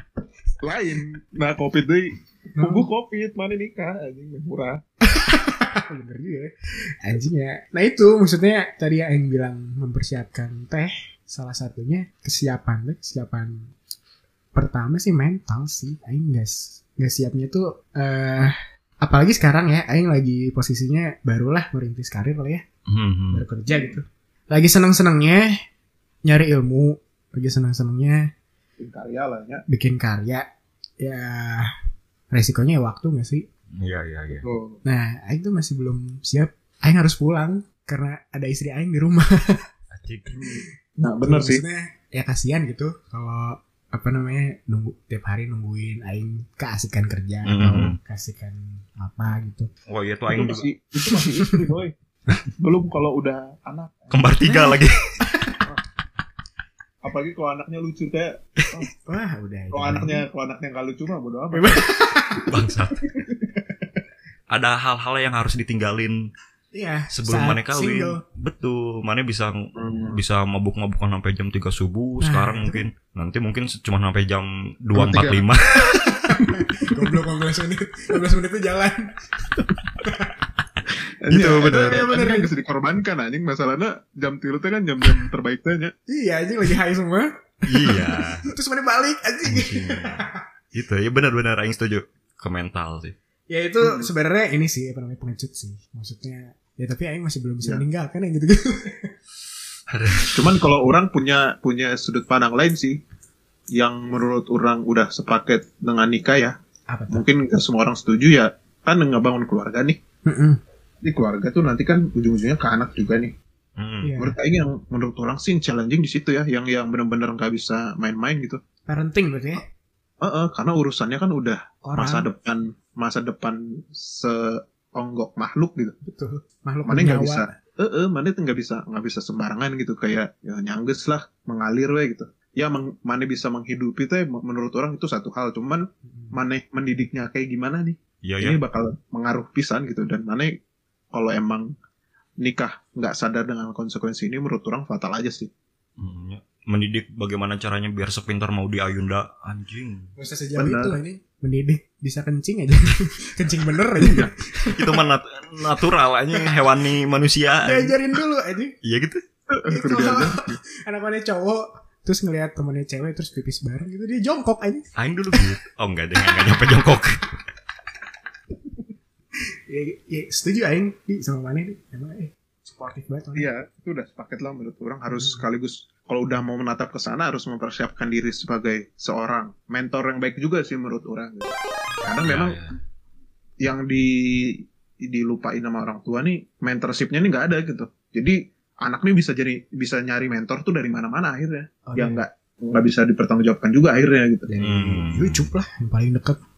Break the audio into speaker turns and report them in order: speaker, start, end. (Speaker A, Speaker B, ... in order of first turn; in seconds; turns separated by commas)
Speaker A: 0.6-4.8, Speaker B: 2.6-2.9, Speaker B: 5.1-13.7, Speaker B: 14.5-22.6, Speaker C: 22.9-23.4, Speaker B: 23.3-25.6, Speaker A: 23.7-24.0, Speaker B: 26.3-28.3, Speaker A: 28.8-29.6, Speaker B: 29.7-30.5, Speaker B: 31.0-31.7, Speaker B: 32.3-33.5, Speaker C: 33.8-34.5, Speaker A: 34.4-34.8, Speaker B: 34.9-39.6, Speaker C: 39.9-40.4, Speaker A: 41.0-41.6, Speaker B: 41.2-49.7, Speaker C: 47.5-48.0, Speaker C: 49.9-50.6, Speaker A: 50.3-51.9, Speaker A: 52.5-54.3, Speaker C: 54.1-55.0, Speaker B: 54.5-55.6, Speaker A: 57.0-58.9, Speaker B: 59.0-60.2, Speaker A: 59.7-61.9, Speaker B: 61.5-62.5, Speaker C: 62.5-63.0, Speaker A: 63.0-63.6, Speaker C: 64.5-66.2, Speaker B: 66.8-68.2, Speaker C: 67.1-76.3, Speaker A: 69.8-70.2, Speaker B: 72.2-72.8, Speaker A: 75.0-75.5, Speaker B: 75.9-80.4, Speaker A: 81.2-85.9, Speaker C: 81.3-81.6, Speaker B: 81.4-82.5, Speaker B: 86.1-90.4, Speaker C: 87.7-88.5, Speaker C: 89.5-93.2, Speaker B: 93.5-99.1, Speaker A: 93.8-94.1, Speaker C: 99.9-100.6, Speaker A: 100.3-103.0, Speaker A: 103.8-106.6, Speaker B: 106.9-107.2, Speaker A: 107.1-110.0, Speaker B: 110.3-110.6, Speaker A: 111.0-113.3, Speaker C: 113.8-114.1, Speaker B: 114.0-114.4, Speaker A: 114.2-118.6, Speaker B: 118.9-119.6, Speaker A: 120.2-126.0, Speaker B: 121.8-122.3, Speaker B: 126.0-127.5, Speaker A: 126.9-140.5, Speaker B: 136.1-136.4, Speaker C: 138.2-138.6, Speaker A: 141.1-141.7, Speaker A: 142.4-145.5, Speaker C: 146.0-150.1, Speaker B: 150.2-155.0, Speaker A: 150.6-150.9, Speaker A: 154.0-154.3, Speaker C: 154.7-157.9, Speaker B: 157.6-158.8, Speaker C: 158.8-159.2, Speaker A: 159.5-160.6, Speaker B: 159.7-165.4, Speaker C: 165.0-167.2, Speaker B: 169.7-173.5, Speaker A: 173.4-182.6, Speaker B: 175.1-175.4, Speaker C: 182.2-182.7, Speaker A: 183.6-194.5, Speaker B: 191.9-192.2, Speaker B: 194.5-196.4, Speaker C: 194.6-195.5